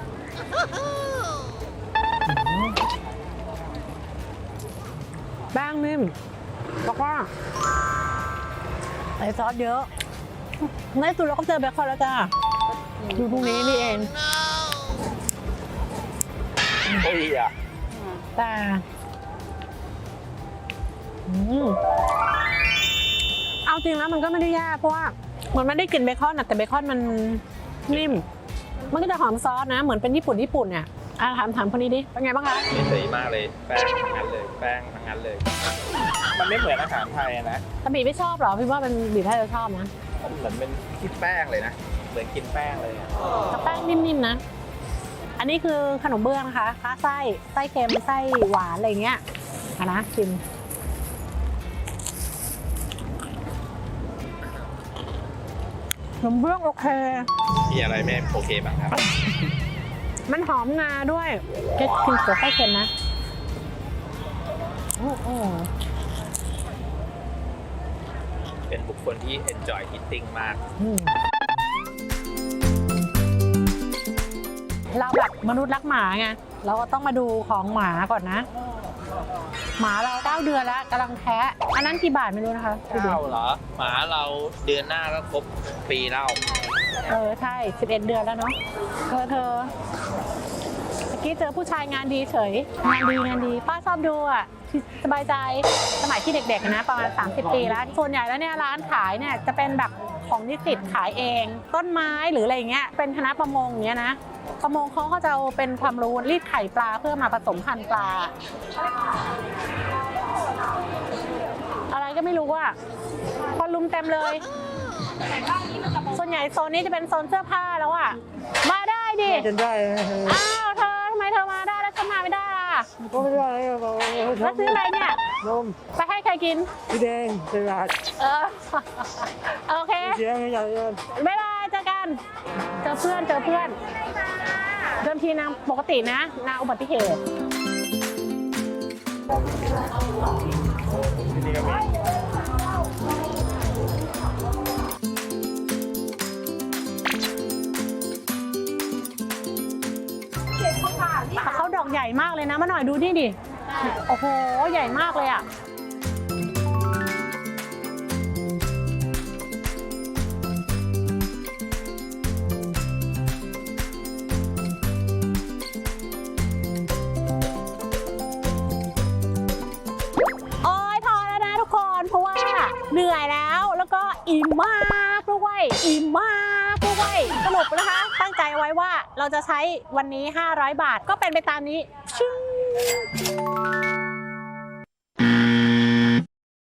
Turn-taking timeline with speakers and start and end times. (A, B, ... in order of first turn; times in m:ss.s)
0:05.5-0:06.1 A
0:06.8-0:07.3 A
0:09.2-0:09.9 A
0:10.8-0:12.3 A
0:13.0-0:14.1 A
0:16.9-0:17.5 B
0:18.3-0:18.8 A
0:21.2-0:21.8 A
0:23.6-0:28.2 A
0:28.9-0:32.6 A
0:32.7-0:35.4 B
0:36.3-0:37.6 B
0:37.8-0:39.9 A
0:40.2-0:43.1 B
0:43.5-0:44.4 A
0:45.4-0:49.2 A
0:49.8-0:50.4 A
0:56.2-0:57.3 A
0:57.7-0:59.0 B
1:00.3-1:02.9 A
1:05.0-1:05.7 A
1:08.7-1:10.6 B
1:10.8-1:11.1 A
1:14.9-1:18.4 A
1:19.8-1:23.2 A
1:22.9-1:26.4 B
1:27.0-1:28.6 A
1:29.1-1:29.7 A
1:31.1-1:48.3 A
1:51.9-1:52.7 A
1:53.5-1:54.5 A
1:55.7-1:59.5 A
1:59.5-2:00.3 C
2:00.2-2:03.1 A
2:03.1-2:04.5 C
2:04.1-2:05.3 A
2:05.4-2:05.8 C
2:05.8-2:06.8 A
2:06.9-2:08.0 C
2:08.1-2:10.3 A
2:10.2-2:11.0 C
2:11.0-2:12.2 A
2:12.7-2:13.8 A
2:14.8-2:17.2 A
2:21.4-2:21.8 B
2:31.0-2:35.4 A
2:50.6-3:03.1 A